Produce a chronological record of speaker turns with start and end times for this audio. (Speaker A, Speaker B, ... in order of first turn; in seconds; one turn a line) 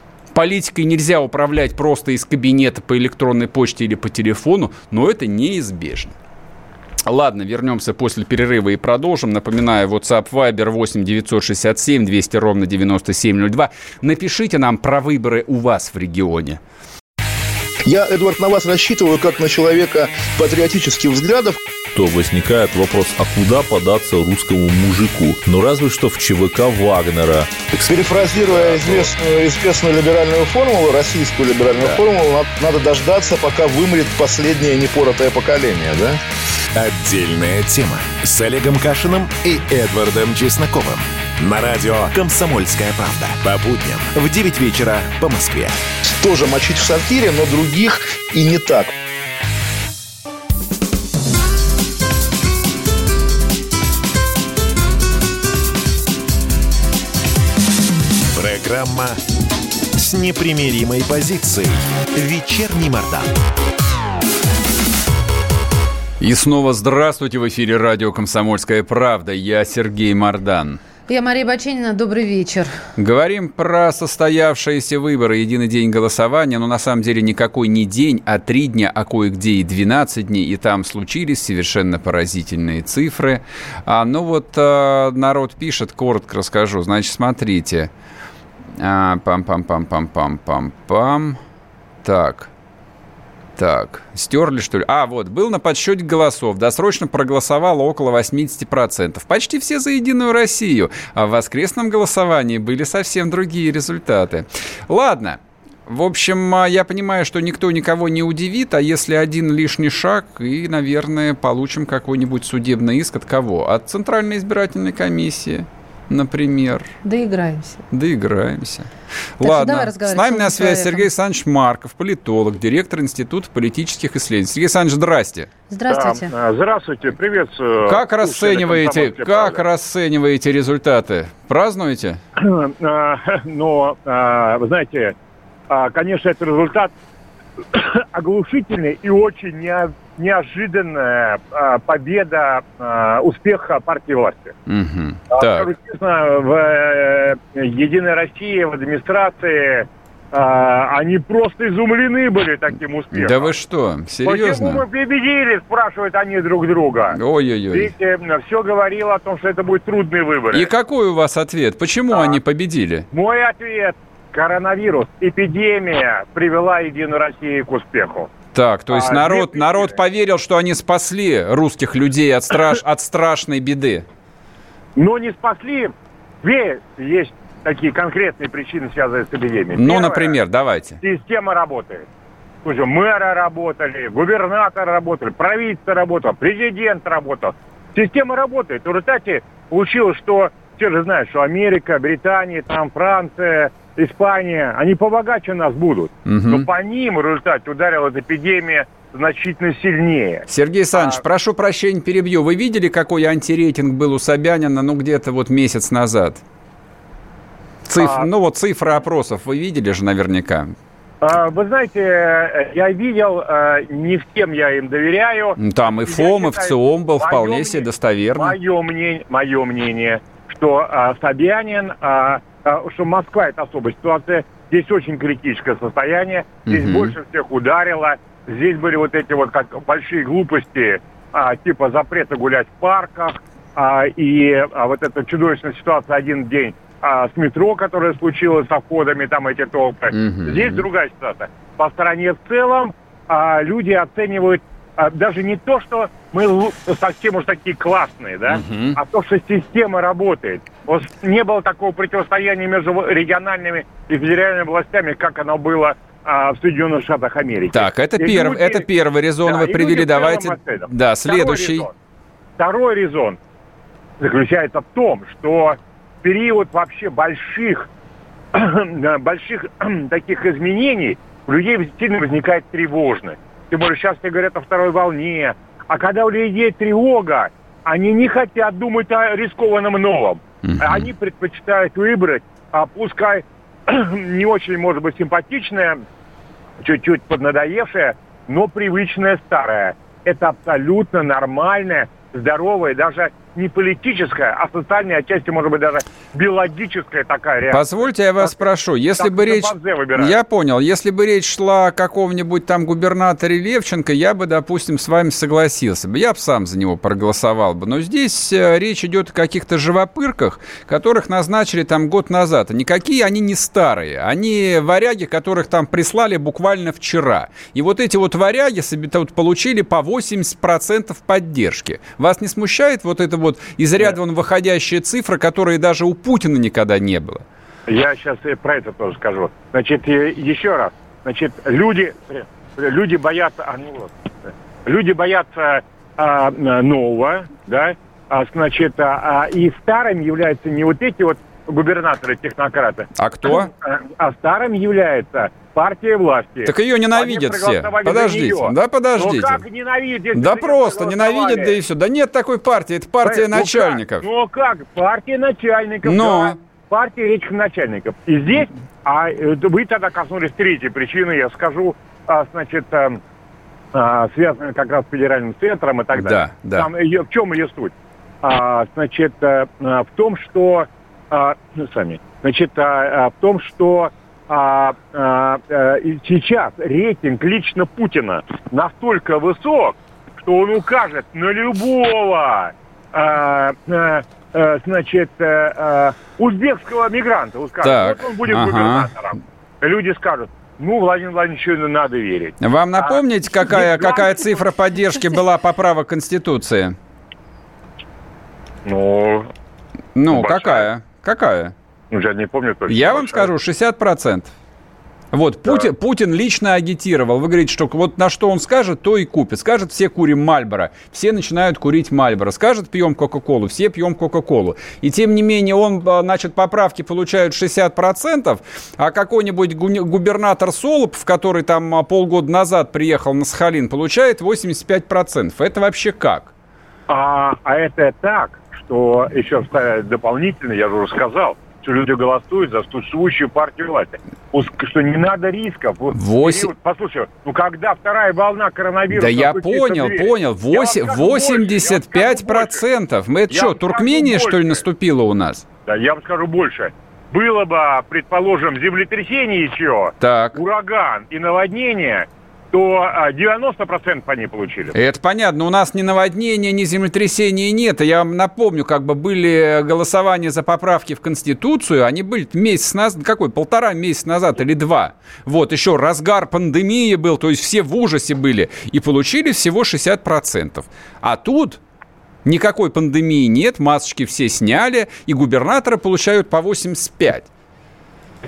Speaker A: 0.3-6.1
Speaker A: 7.0-16.6
Speaker B: 17.9-21.6
Speaker C: 21.9-27.6
Speaker B: 27.8-36.2
Speaker C: 28.5-29.1
Speaker D: 36.7-45.8
Speaker B: 46.1-48.9
Speaker D: 58.3-59.2
Speaker D: 59.9-63.3
Speaker A: 66.2-70.8
Speaker E: 71.1-72.8
Speaker A: 73.0-87.9
Speaker A: 88.8-91.4
Speaker A: 92.0-92.5
Speaker A: 93.5-116.9
Speaker E: 117.0-117.8
Speaker A: 117.9-125.5
Speaker E: 119.4-121.1
Speaker E: 125.7-126.3
Speaker F: 125.9-129.6
Speaker A: 127.8-132.2
Speaker F: 132.4-135.1
Speaker F: 135.7-136.9
Speaker F: 137.7-144.5
Speaker A: 144.7-145.7
Speaker F: 145.3-153.5
Speaker A: 153.1-154.8
Speaker F: 154.2-157.2
Speaker A: 157.1-157.9
Speaker F: 157.7-160.7
Speaker A: 160.5-163.1
Speaker F: 162.1-162.4
Speaker F: 163.1-168.3
Speaker A: 168.5-174.0
Speaker F: 168.9-169.9
Speaker F: 174.9-180.4
Speaker A: 179.7-181.0
Speaker F: 181.0-182.1
Speaker F: 182.6-201.2
Speaker A: 196.2-196.7
Speaker A: 200.5-206.4
Speaker A: 207.8-210.7
Speaker F: 208.0-208.3
Speaker F: 211.2-258.9
Speaker A: 215.6-218.6
Speaker A: 226.7-227.1
Speaker A: 240.1-240.9
Speaker A: 248.5-249.0
Speaker A: 257.7-261.9
Speaker F: 259.4-261.9
Speaker F: 262.6-263.4
Speaker F: 264.2-267.9
Speaker F: 268.5-286.0
Speaker A: 280.6-281.1
Speaker F: 286.8-298.6
Speaker A: 297.7-327.4
Speaker F: 299.2-300.4
Speaker F: 327.9-351.8
Speaker A: 343.1-343.7
Speaker A: 346.6-349.6
Speaker A: 350.3-354.2
Speaker F: 353.2-363.2
Speaker A: 356.0-356.6
Speaker F: 363.9-394.6
Speaker A: 366.1-366.9
Speaker A: 387.8-389.1
Speaker A: 392.6-396.9
Speaker F: 398.8-399.5
Speaker A: 400.1-401.7
Speaker F: 400.3-400.9
Speaker F: 402.1-403.5
Speaker A: 402.9-404.5
Speaker A: 405.3-426.5
Speaker F: 427.1-442.8
Speaker A: 436.1-436.7
Speaker A: 439.1-445.6
Speaker F: 443.5-444.8
Speaker F: 445.9-454.9
Speaker A: 450.2-450.6
Speaker A: 454.9-471.8
Speaker A: 472.4-477.5